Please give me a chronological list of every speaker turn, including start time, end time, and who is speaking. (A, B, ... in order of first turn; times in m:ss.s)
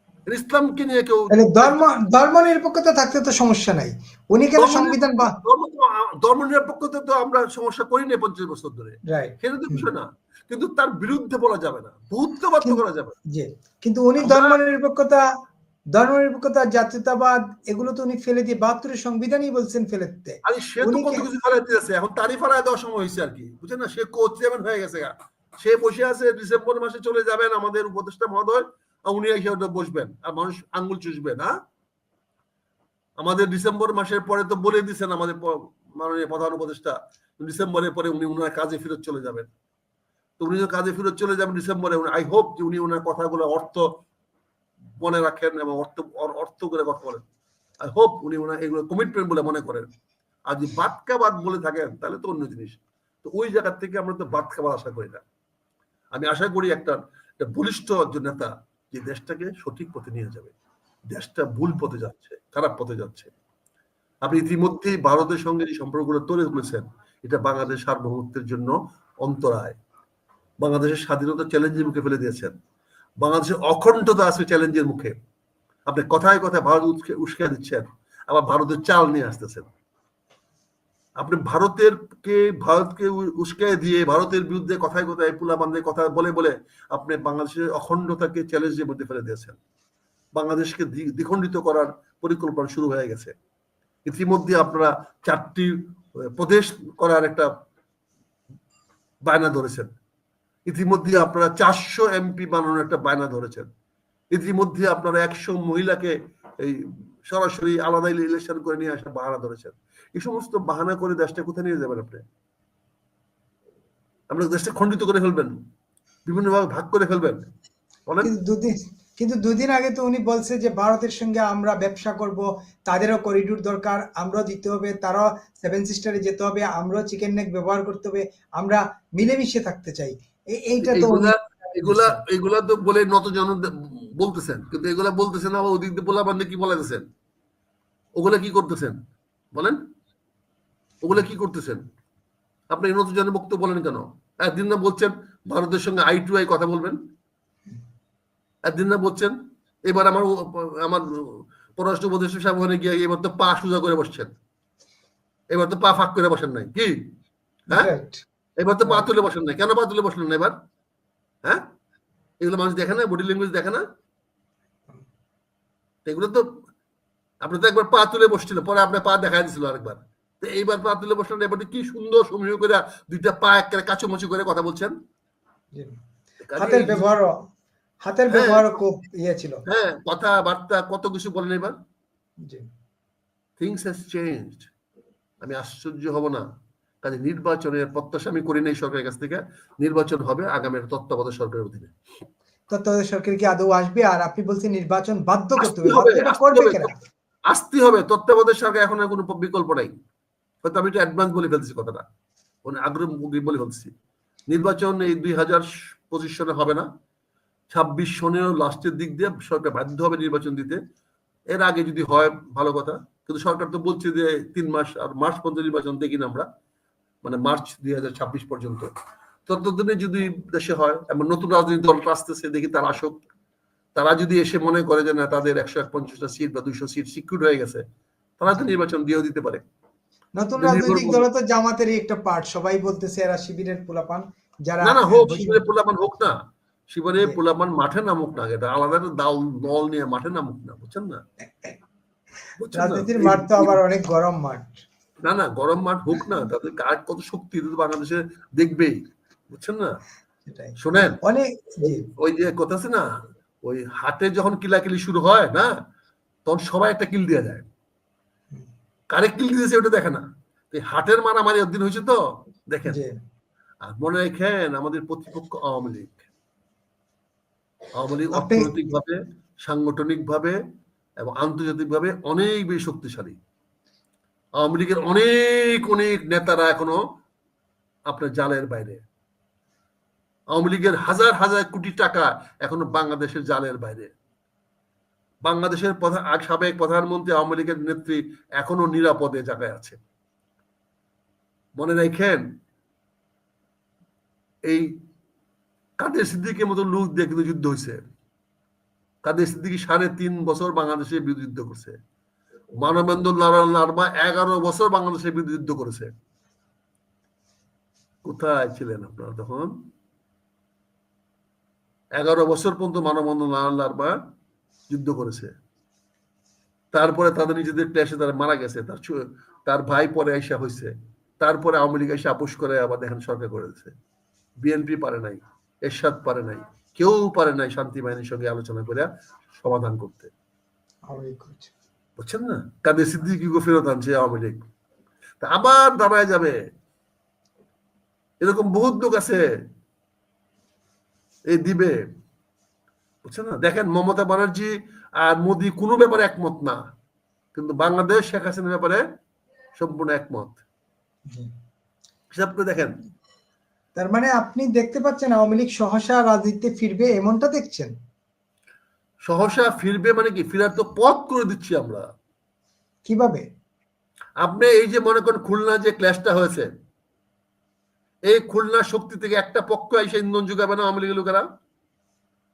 0:00.3-0:01.8 A
0:01.3-0:05.3 B
0:04.6-0:13.1 A
0:09.1-0:09.9 B
0:12.6-0:15.2 B
0:14.2-0:14.6 A
0:16.0-0:21.2 B
0:20.4-0:31.5 A
0:33.2-0:39.5 A
0:40.4-0:43.8 A
0:45.0-0:47.2 A
0:47.8-0:49.9 A
0:50.5-0:55.2 A
0:56.1-1:00.5 A
1:01.1-1:03.3 A
1:04.2-1:09.8 A
1:10.6-1:12.5 A
1:13.2-1:15.1 A
1:15.9-1:19.7 A
1:21.2-1:29.6 A
1:30.4-1:33.3 A
1:34.1-1:35.7 A
1:36.4-1:37.5 A
1:39.3-1:39.9 A
1:40.7-1:43.7 A
1:44.3-1:52.2 A
1:54.3-1:55.5 A
1:56.3-1:57.4 A
1:58.2-2:12.2 B
2:10.8-2:17.0 A
2:18.2-2:19.0 A
2:21.0-2:21.8 A
2:22.7-2:27.0 A
2:28.7-2:29.3 A
2:29.9-2:31.0 A
2:31.8-2:34.3 A
2:35.5-2:37.0 A
2:37.7-2:38.2 B
2:38.6-2:40.5 A
2:42.4-2:43.8 A
2:46.0-2:46.4 A
2:47.4-2:54.9 A
2:56.4-2:57.1 A
2:56.6-2:57.3 B
2:58.0-2:59.6 B
2:58.3-2:58.7 A
2:59.7-3:01.8 A
3:03.6-3:04.7 A
3:05.4-3:06.4 A
3:07.0-3:11.9 A
3:12.7-3:16.9 B
3:15.6-3:16.9 A
3:17.5-3:19.9 A
3:20.6-3:22.0 A
3:22.6-3:23.9 A
3:24.5-3:26.9 A
3:27.7-3:30.8 A
3:31.5-3:36.5 A
3:37.2-3:38.9 A
3:39.5-3:43.2 A
3:44.0-3:47.8 A
3:48.4-3:49.6 A
3:50.4-3:55.6 B
3:50.6-3:51.2 A
3:54.8-3:56.4 A
3:56.9-4:01.2 A
4:02.6-4:03.8 A
4:02.7-4:04.8 B
4:05.2-4:09.0 A
4:09.5-4:10.0 A
4:10.5-4:12.0 B
4:10.8-4:11.2 A
4:11.8-4:13.0 A
4:13.6-4:15.7 A
4:16.4-4:17.7 A
4:19.1-4:22.2 A
4:22.7-4:23.0 A
4:22.9-4:23.1 B
4:23.8-4:26.3 A
4:28.0-4:30.6 A
4:28.3-4:28.7 B
4:31.2-4:33.4 A
4:34.6-4:37.0 A
4:38.1-4:39.0 A
4:40.5-4:44.1 A
4:45.4-4:50.0 A
4:51.8-4:52.4 A
4:56.0-4:58.0 A
4:59.2-5:02.0 A
5:02.8-5:06.1 A
5:08.2-5:09.7 A
5:12.2-5:14.2 A
5:14.9-5:15.5 A
5:16.9-5:23.9 A
5:24.6-5:30.3 A
5:31.1-5:31.7 B
5:32.2-5:34.6 A
5:35.4-5:36.5 A
5:38.4-5:39.4 A
5:41.5-5:41.9 A
5:43.2-5:46.8 A
5:47.5-5:49.0 A
5:49.8-5:50.6 A
5:52.3-5:52.9 A
5:54.0-5:57.9 B
5:59.3-6:02.0 A
6:03.0-6:03.4 B
6:04.4-6:06.7 A
6:08.3-6:11.4 A